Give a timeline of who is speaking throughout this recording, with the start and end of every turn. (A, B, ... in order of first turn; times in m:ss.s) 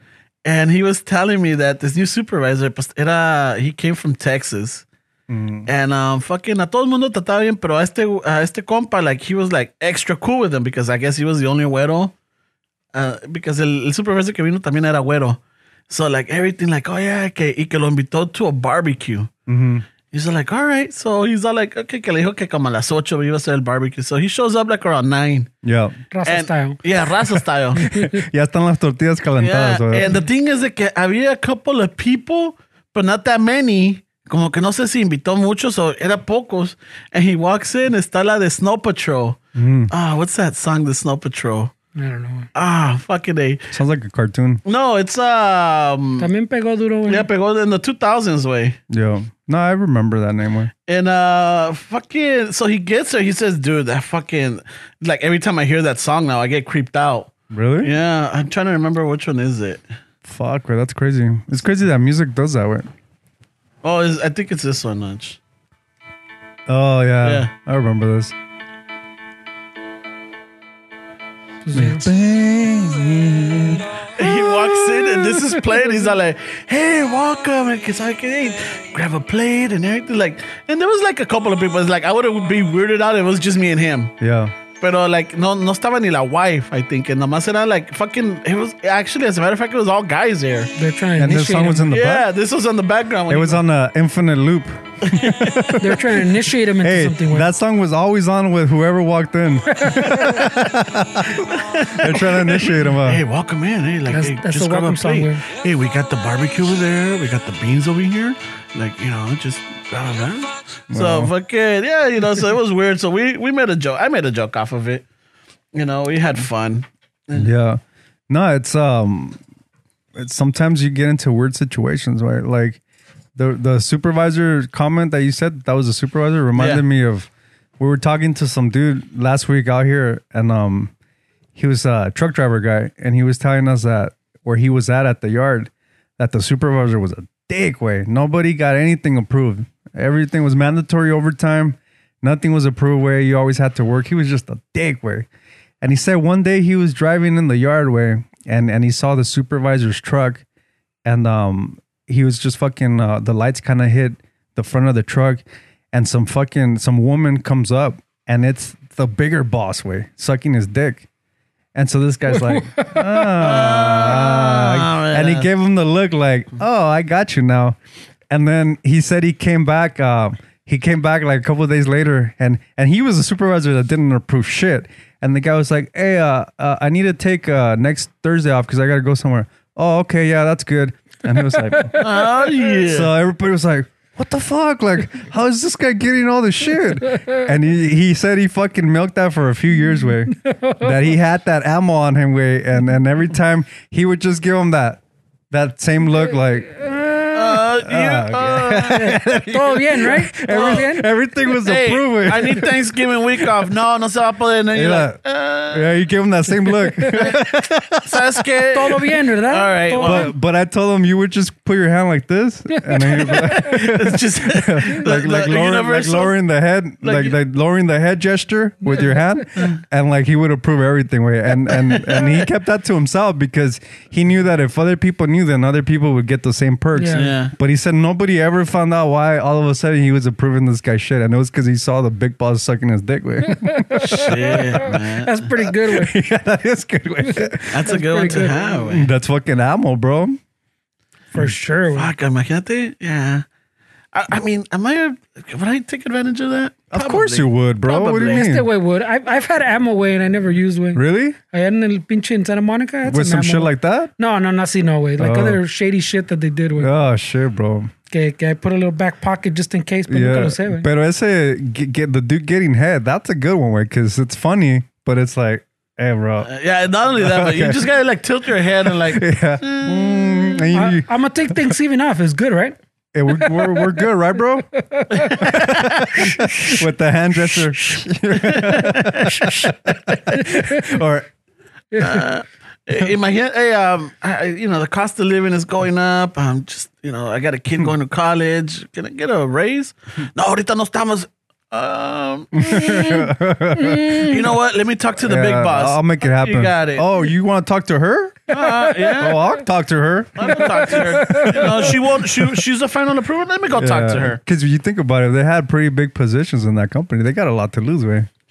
0:00.4-0:04.8 A
0:05.3-0:05.7 B
0:05.7-0:12.1 A
0:12.9-0:19.3 A
0:19.5-0:19.8 B
0:20.1-0:25.5 A
0:25.6-0:26.0 B
0:26.1-0:26.8 C
0:26.3-0:27.9 A
0:27.8-0:30.2 B
0:27.8-0:28.2 C
0:29.4-0:39.4 A
0:39.6-0:39.9 B
0:39.9-0:41.7 A
0:42.0-0:42.5 C
0:42.6-0:43.7 A
0:43.7-0:44.6 B
0:44.6-0:46.3 A
0:46.2-0:47.3 C
0:47.1-0:48.8 A
0:48.9-0:50.7 B
0:50.9-0:59.8 A
0:57.5-0:57.9 B
1:00.2-1:02.9 B
1:03.8-1:05.4 A
1:06.7-1:08.3 B
1:07.2-1:07.5 A
1:11.6-1:12.1 C
1:11.7-1:14.3 B
1:14.1-1:24.1 A
1:24.2-1:24.5 B
1:24.8-1:30.7 A
1:30.8-1:31.9 C
1:31.2-1:32.3 B
1:31.9-1:33.6 A
1:33.3-1:36.2 B
1:35.0-1:35.8 A
1:35.8-1:37.5 C
1:36.8-1:43.2 B
1:39.8-1:40.4 C
1:41.4-1:55.0 A
1:44.1-1:45.4 C
1:50.9-1:51.3 B
1:55.7-1:57.5 A
1:57.4-1:59.4 B
2:00.2-2:02.8 B
2:03.4-2:10.9 B
2:06.6-2:06.8 A
2:11.6-2:25.3 B
2:25.8-2:30.4 B
2:31.1-2:41.1 B
2:41.8-2:47.8 B
2:42.3-2:43.4 C
2:43.4-2:45.5 A
2:48.3-3:02.0 B
3:01.6-3:02.3 C
3:02.0-3:03.1 A
3:02.8-3:16.8 B
3:07.1-3:07.4 C
3:10.3-3:11.0 C
3:16.7-3:17.6 C
3:17.4-3:19.2 A
3:17.8-3:22.7 B
3:18.9-3:21.1 C
3:20.5-3:20.9 A
3:21.6-3:26.0 A
3:24.7-3:25.2 B
3:25.7-3:28.4 B
3:26.8-3:27.4 C
3:28.0-3:30.3 A
3:28.7-3:30.3 C
3:30.0-3:55.0 B
3:32.8-3:33.8 C
3:33.2-3:36.4 A
3:37.0-3:37.4 A
3:38.9-3:39.2 C
3:42.0-3:42.3 A
3:47.0-3:47.3 C
3:47.1-3:47.5 A
3:53.5-3:56.2 C
3:54.1-3:55.4 A
3:55.6-4:00.4 B
3:57.2-3:58.8 C
3:57.7-3:59.1 A
4:01.3-4:02.1 C
4:01.9-4:03.4 A
4:04.1-4:08.5 A
4:06.9-4:08.7 B
4:08.3-4:16.9 C
4:11.0-4:11.4 B
4:13.0-4:14.1 B
4:15.2-4:15.6 B
4:16.8-4:17.9 B
4:18.1-4:20.9 C
4:20.1-4:26.5 B
4:26.4-4:30.7 A
4:27.2-4:27.9 B
4:28.8-4:31.7 B
4:30.7-4:34.1 C
4:33.1-4:34.7 B
4:34.7-4:36.8 C
4:35.2-4:36.3 A
4:35.3-4:41.3 B
4:38.3-4:39.6 A
4:40.3-4:40.8 C
4:41.9-4:42.2 C
4:42.0-4:53.2 A
4:52.5-4:54.4 B
4:52.7-4:54.4 C
4:54.1-4:57.1 A
4:55.2-5:02.4 B
4:58.5-4:59.4 A
4:58.6-4:59.1 C
5:00.4-5:04.4 A
5:00.6-5:01.9 C
5:03.8-5:08.3 B